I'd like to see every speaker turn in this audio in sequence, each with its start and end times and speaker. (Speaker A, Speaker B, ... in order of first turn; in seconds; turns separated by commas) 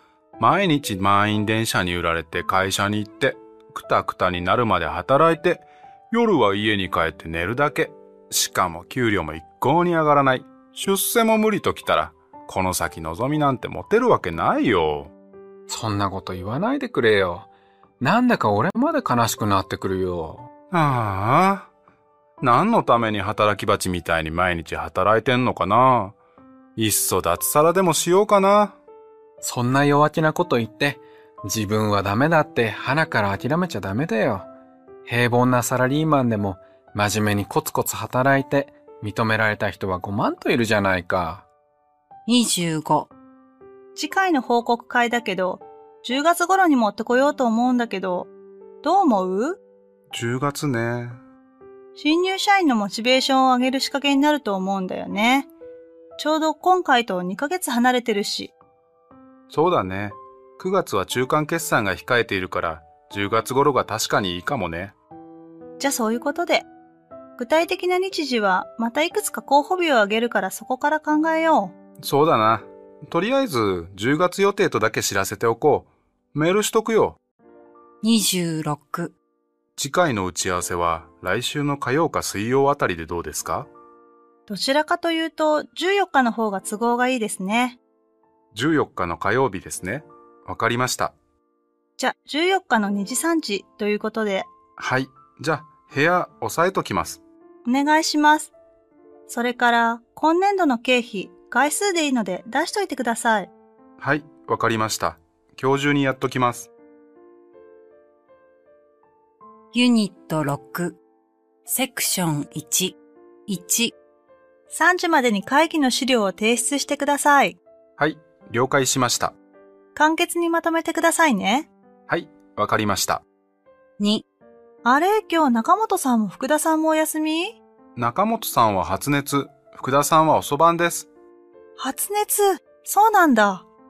Speaker A: 0.4-15.1, Speaker B: 15.7-17.5, Speaker B: 18.0-20.5, Speaker A: 20.7-21.7, Speaker A: 22.4-26.1, Speaker A: 26.8-28.8, Speaker B: 29.4-34.5, Speaker B: 35.1-41.5, Speaker C: 42.3-43.1, Speaker D: 44.0-48.3, Speaker D: 48.8-49.6, Speaker A: 50.1-51.2, Speaker D: 52.0-55.5, Speaker D: 56.2-58.5, Speaker A: 59.5-64.9, Speaker D: 65.8-66.7, Speaker D: 67.4-71.7, Speaker A: 72.0-77.2, Speaker C: 78.0-79.2, Speaker A: 79.8-83.7, Speaker D: 84.5-87.8, Speaker A: 88.5-91.2, Speaker D: 92.0-94.5, Speaker A: 94.8-97.2, Speaker D: 97.7-98.5, Speaker D: 99.3-103.5, Speaker A: 104.0-106.7, Speaker C: 109.7-111.0, Speaker C: 111.7-114.0, Speaker D: 114.7-117.6, Speaker A: 118.0-119.3, Speaker D: 120.0-121.7, Speaker A: 122.1-123.2, Speaker C: 124.0-124.2, Speaker D: 124.8-127.6, Speaker A: 128.0-131.1, Speaker D: 131.8-133.7